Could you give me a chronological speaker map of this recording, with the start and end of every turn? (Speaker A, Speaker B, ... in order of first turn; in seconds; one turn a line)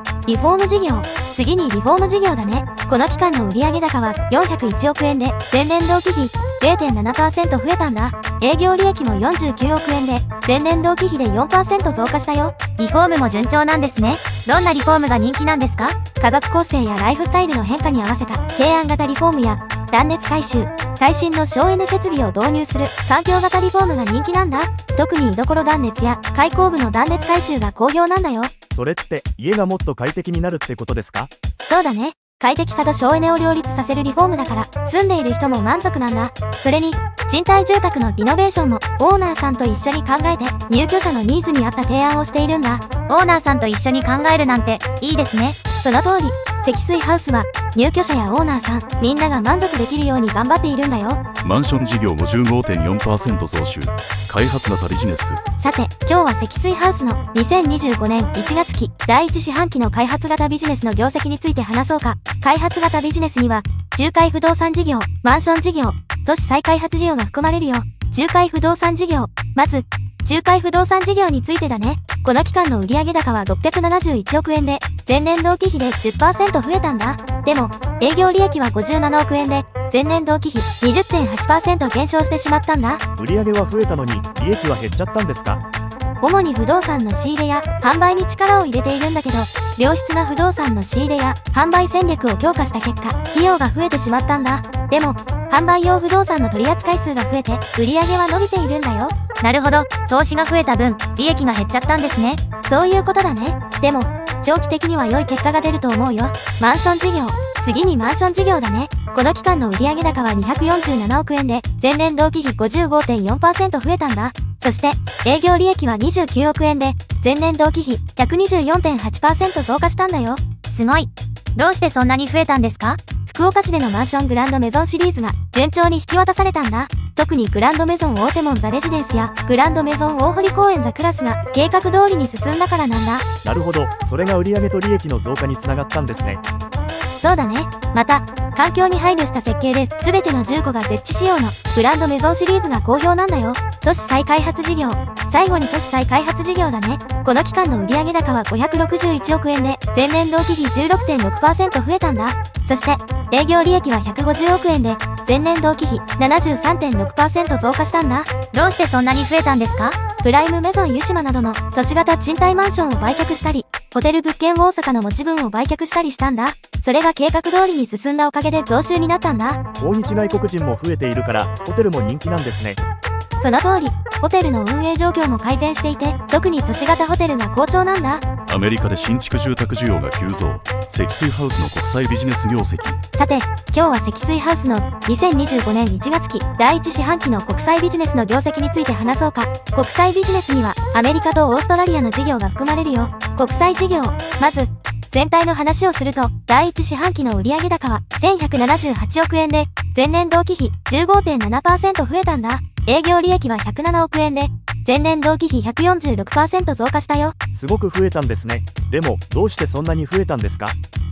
Speaker A: 0.3-12.6
Speaker B: 12.8-16.0
Speaker A: 16.2-28.5
Speaker C: 28.7-31.3
Speaker A: 31.6-42.9
Speaker B: 43.1-45.6
Speaker A: 45.8-51.2
Speaker D: 51.4-55.4
Speaker A: 55.6-83.0
Speaker C: 83.2-85.6
Speaker A: 86.2-99.1
Speaker B: 99.4-102.4
Speaker A: 102.7-120.4
Speaker B: 120.7-123.0
Speaker A: 123.3-133.2
Speaker C: 133.4-136.4
Speaker A: 137.2-158.3
Speaker B: 158.5-160.0
Speaker A: 160.2-169.6
Speaker C: 169.8-172.8
Speaker A: 173.4-178.2
Speaker D: 178.5-183.0
Speaker A: 183.2-207.3
Speaker C: 207.5-210.8